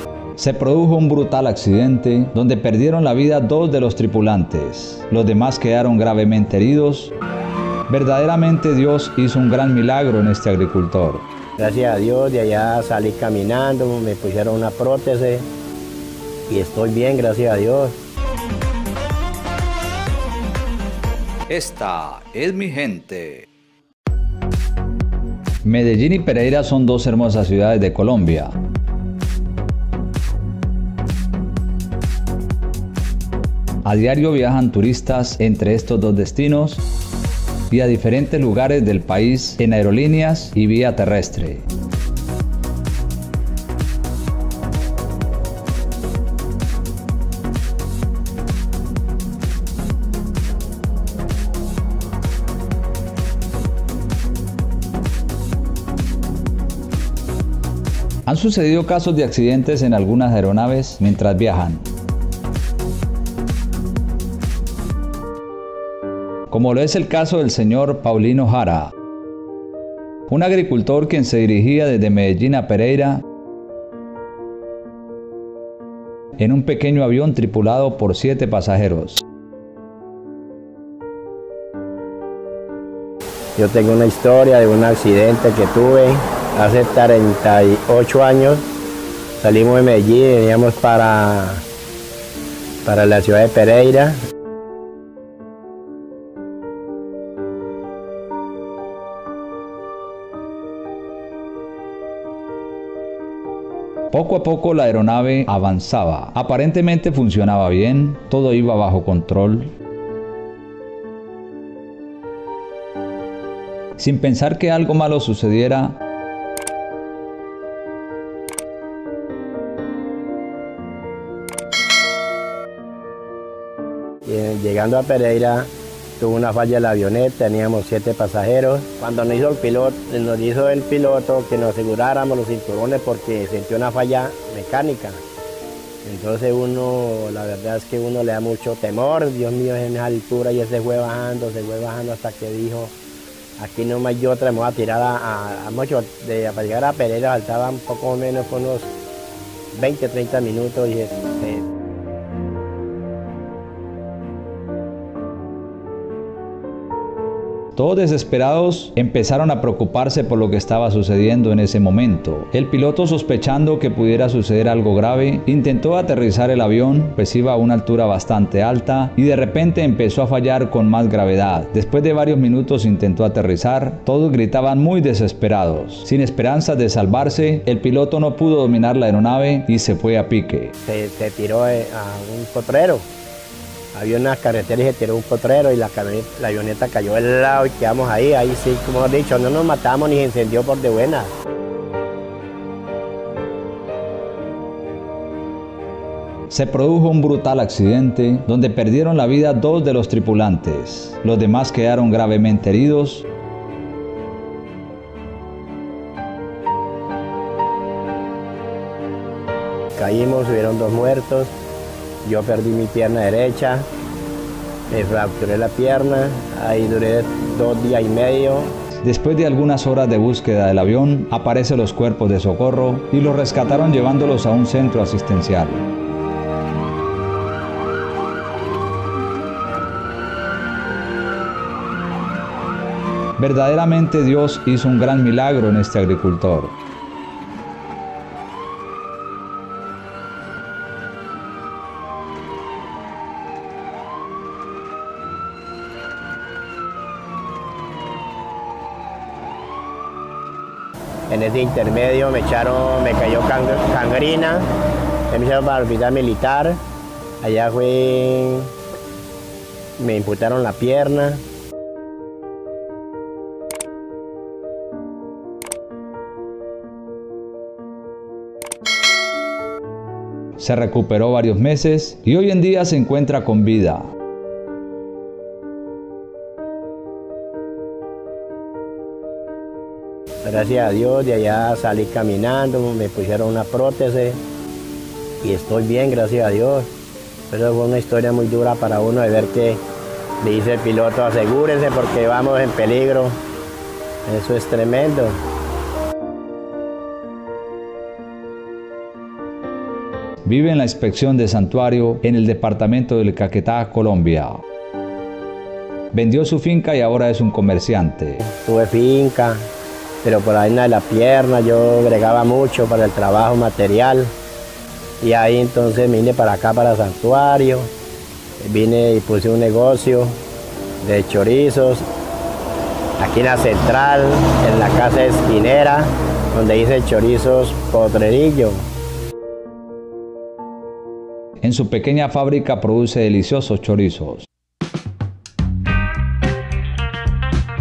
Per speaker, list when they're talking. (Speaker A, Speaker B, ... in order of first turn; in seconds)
Speaker A: 0.4-7.1, 7.9-11.2, 21.5-23.5, 25.6-28.5, 33.8-36.8, 37.7-41.6, 58.3-61.8, 66.5-68.9, 70.3-73.2, 76.4-79.2, 104.1-109.7, 114.0-116.0, 157.8-180.7, 196.5-203.2, 219.0-225.8, 233.4-236.7, 270.6-274.1, 300.4-304.6, 306.1-308.4, 331.6-334.5
Speaker B: 11.6-15.5, 16.5-18.0, 83.5-88.7, 89.4-91.6, 92.8-94.2, 124.2-135.2, 136.0-142.9, 143.6-148.9, 149.7-151.7, 180.8-183.1, 183.9-191.3, 209.9-211.5, 212.2-213.9, 214.9-218.7, 251.3-254.7, 255.3-256.8, 257.4-258.7, 260.0-261.4, 280.4-284.4, 285.4-286.9, 287.5-289.8, 290.4-293.4, 294.2-295.4, 308.4-309.7, 310.2-314.3, 315.2-317.9, 318.6-320.4, 321.0-322.1, 323.2-328.8